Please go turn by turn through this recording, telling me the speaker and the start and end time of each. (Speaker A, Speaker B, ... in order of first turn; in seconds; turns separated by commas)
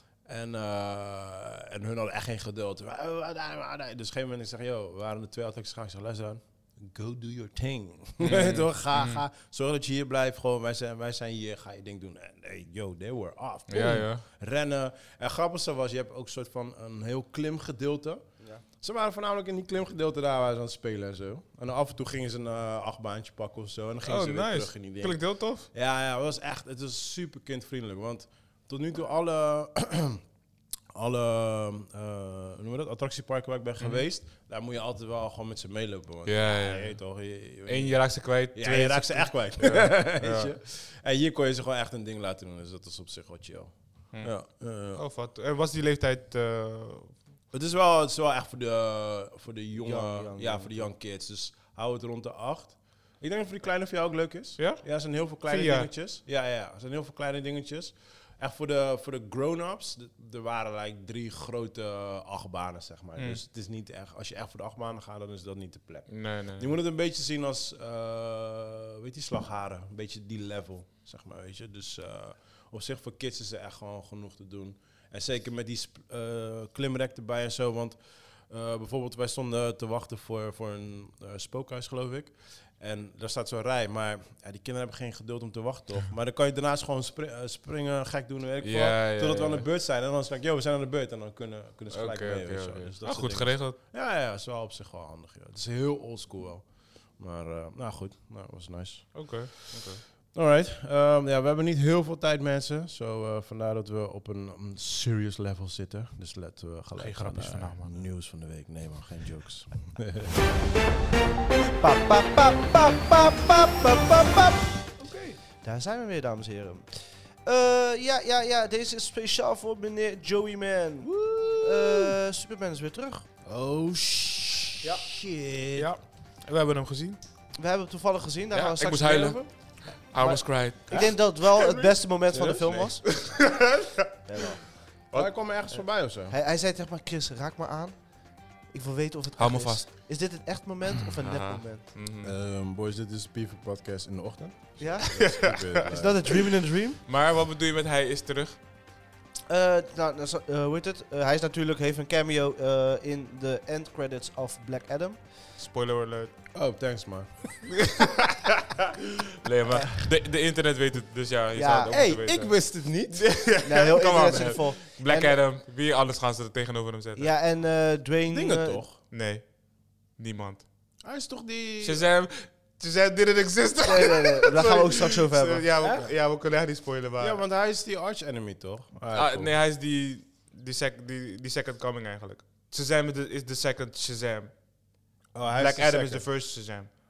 Speaker A: 0.2-18.2, Speaker B: 8.2-9.2, Speaker B: 13.7-14.2, Speaker A: 18.8-30.2, Speaker B: 24.0-25.7, Speaker A: 30.9-45.0, Speaker B: 33.8-34.0, Speaker B: 36.2-37.1, Speaker B: 37.6-40.5, Speaker B: 44.1-47.2, Speaker A: 47.5-110.3, Speaker C: 49.8-50.9, Speaker B: 54.6-55.9, Speaker B: 63.2-63.4, Speaker B: 66.1-66.8, Speaker B: 88.6-89.7, Speaker B: 91.9-93.8, Speaker B: 99.1-100.0, Speaker B: 107.0-108.0, Speaker C: 111.8-114.7, Speaker B: 115.0-115.4, Speaker C: 115.6-123.2, Speaker A: 121.0-122.2, Speaker A: 123.4-125.9, Speaker B: 125.7-127.2, Speaker C: 127.5-129.5, Speaker B: 128.5-130.9, Speaker C: 130.1-133.0, Speaker A: 130.9-133.1, Speaker B: 133.1-133.9, Speaker C: 134.3-134.8, Speaker A: 135.1-136.3, Speaker C: 135.7-141.8, Speaker B: 139.4-139.9, Speaker B: 141.2-142.3, Speaker A: 142.2-146.5, Speaker C: 144.8-145.1, Speaker B: 145.0-146.3, Speaker C: 145.9-147.0, Speaker B: 147.1-148.6, Speaker C: 149.5-155.3, Speaker B: 155.6-156.4, Speaker A: 156.5-157.9, Speaker B: 158.0-158.5, Speaker B: 159.4-167.3, Speaker C: 161.6-161.9, Speaker A: 161.9-163.4, Speaker C: 163.6-165.4, Speaker C: 167.2-168.8, Speaker A: 168.3-169.0, Speaker B: 169.1-170.7, Speaker A: 171.0-172.1, Speaker B: 171.8-177.4, Speaker C: 173.8-175.7, Speaker A: 175.8-176.1, Speaker A: 177.2-179.5, Speaker B: 179.1-184.6, Speaker A: 185.3-186.3, Speaker B: 185.5-186.9